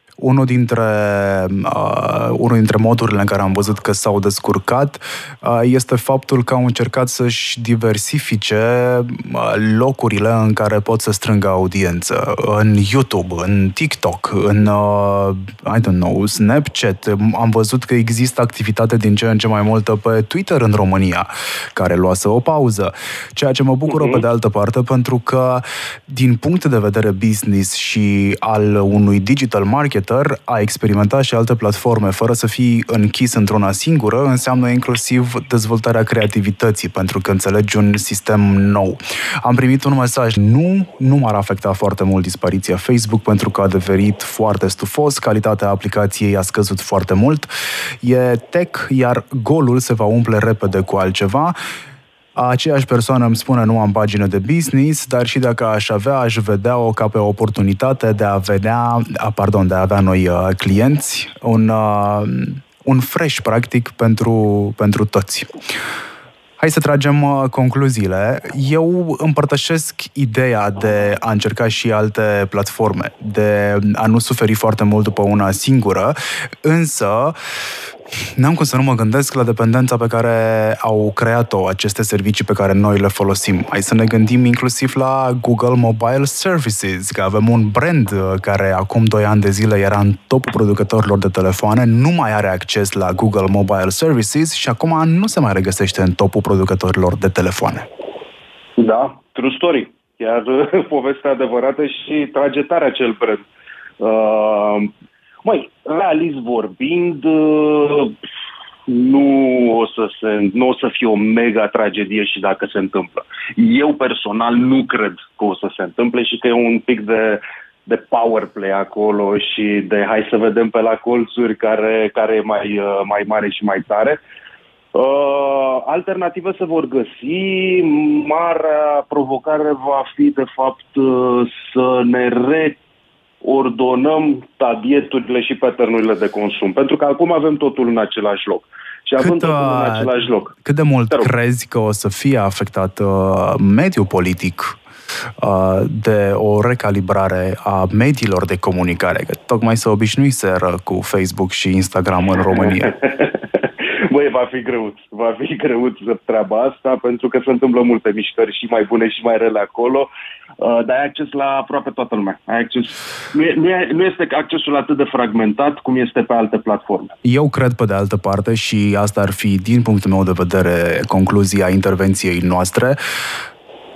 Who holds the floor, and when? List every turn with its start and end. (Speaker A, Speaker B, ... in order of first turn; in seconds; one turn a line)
Speaker A: 0.2-47.5
Speaker B: 23.9-24.2
Speaker A: 48.0-51.5
Speaker A: 52.4-65.5
Speaker A: 66.6-77.3
Speaker A: 78.4-97.8
Speaker B: 98.8-103.4
Speaker B: 104.0-104.9
Speaker B: 105.4-108.2
Speaker B: 108.9-124.2
Speaker B: 124.9-132.8
Speaker B: 133.4-140.5
Speaker A: 139.2-140.1
Speaker A: 140.6-144.8
Speaker A: 145.4-152.9
Speaker B: 152.5-167.1
Speaker A: 167.2-173.0